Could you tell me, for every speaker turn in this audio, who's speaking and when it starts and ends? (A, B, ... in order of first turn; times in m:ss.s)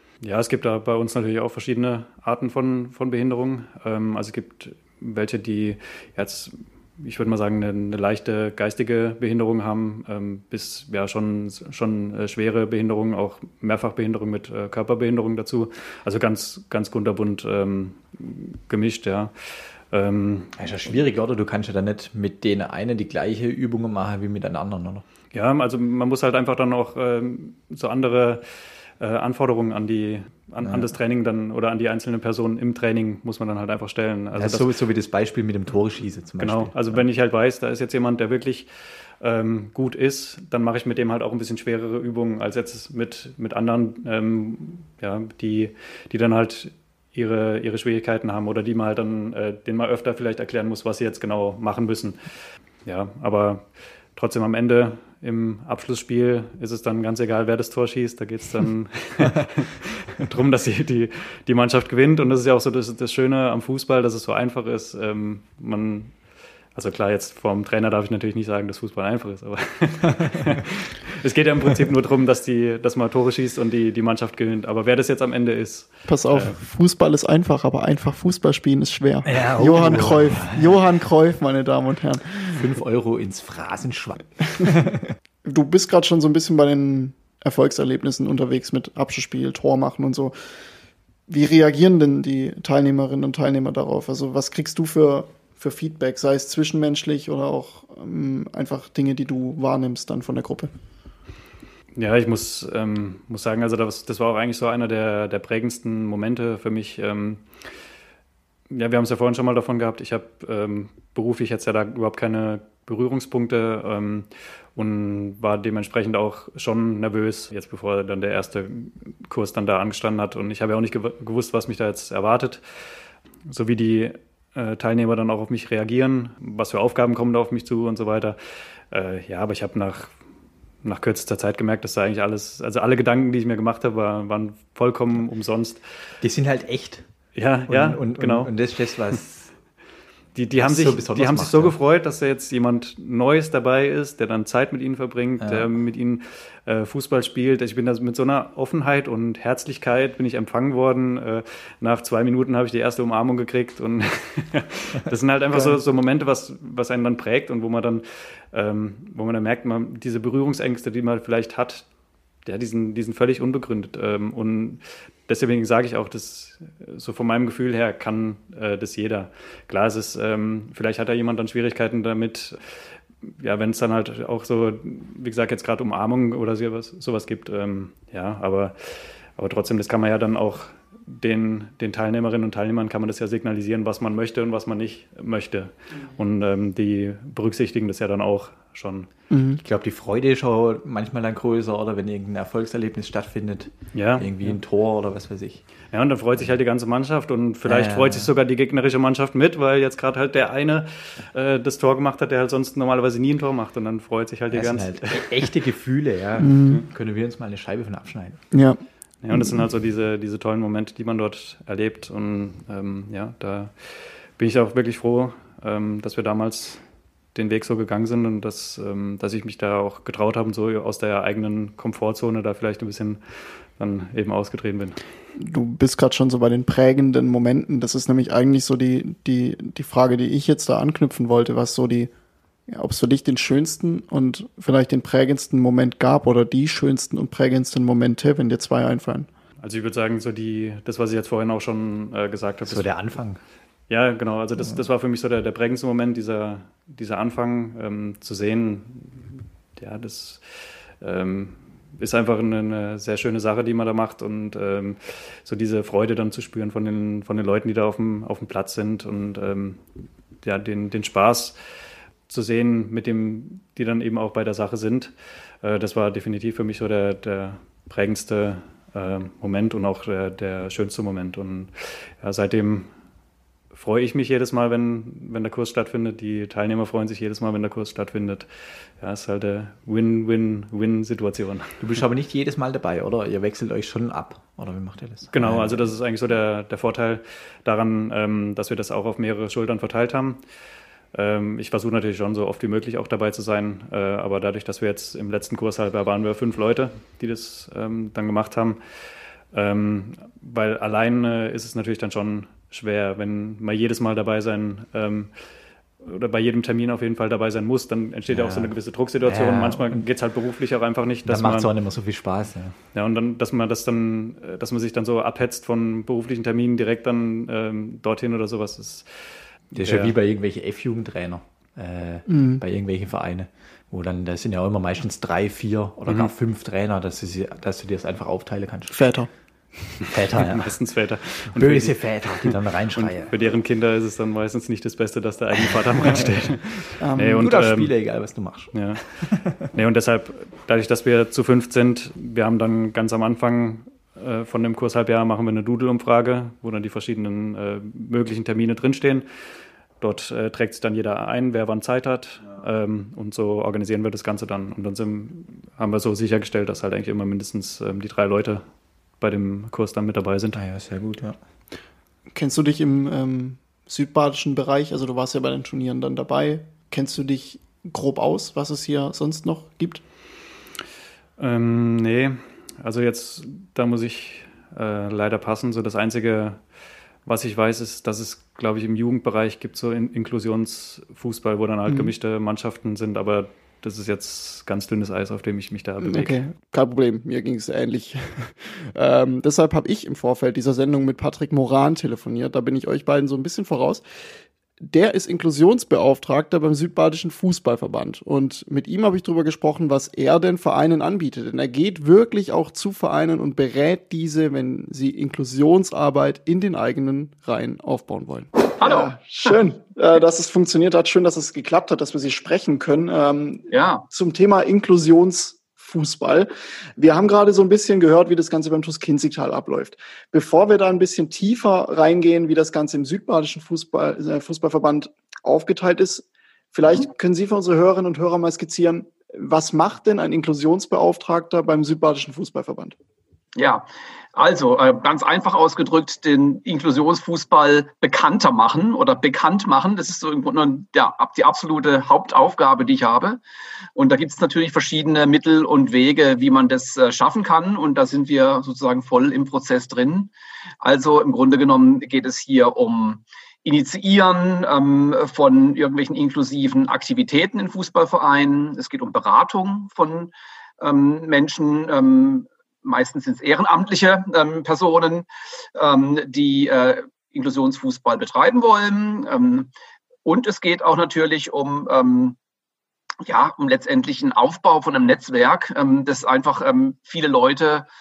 0:00.2-0:20.5 A
0:20.6-0:25.0 B
0:25.3-0:34.7 A
0:34.3-0:37.0 B
0:36.4-0:38.7 A
0:39.2-0:52.2 A
0:52.8-1:16.6 A
1:16.1-1:22.6 C
1:19.2-1:20.8 B
1:22.4-1:25.1 B
1:25.4-1:30.4 C
1:31.3-1:40.7 C
1:42.0-1:47.7 A
1:48.7-2:02.9 A
2:03.4-2:10.1 A
2:10.8-2:15.8 A
2:16.2-2:17.1 B
2:17.3-2:19.2 A
2:17.7-2:19.5 B
2:20.3-2:41.8 A
2:20.6-2:21.8 B
2:25.4-2:25.7 B
2:42.4-3:09.1 A
3:09.3-3:09.6 C
3:09.6-3:16.5 B
3:13.9-3:14.6 A
3:15.9-3:25.5 A
3:17.6-3:18.3 B
3:24.5-3:28.4 B
3:26.4-3:26.8 C
3:28.5-3:28.8 C
3:29.2-3:36.8 A
3:29.3-3:29.6 C
3:37.3-3:45.0 A
3:45.4-3:52.1 C
3:52.7-3:59.3 C
3:59.6-4:03.1 A
4:02.6-4:03.4 B
4:03.9-4:19.8 A
4:20.4-4:21.6 A
4:22.3-4:32.9 A
4:33.7-4:41.8 A
4:41.8-4:45.9 B
4:45.3-4:50.4 A
4:51.1-5:05.3 A
5:06.0-5:11.7 A
5:08.3-5:10.0 B
5:11.2-5:12.7 B
5:12.9-5:20.1 A
5:19.7-5:29.2 B
5:22.3-5:22.6 C
5:28.9-5:29.3 C
5:30.1-5:30.9 B
5:30.4-5:49.2 A
5:31.4-5:33.3 B
5:37.0-5:37.5 C
5:37.4-5:39.5 B
5:50.0-5:58.6 A
5:59.2-6:00.6 A
6:00.5-6:01.4 B
6:02.3-6:10.0 C
6:11.4-6:16.6 A
6:17.2-6:26.4 A
6:21.9-6:22.1 C
6:26.0-6:34.0 C
6:34.8-7:13.0 C
6:48.8-6:49.5 D
6:53.7-6:54.0 D
7:13.6-7:23.4 D
7:24.0-7:49.7 D
7:50.2-7:52.4 D
7:53.2-7:57.9 D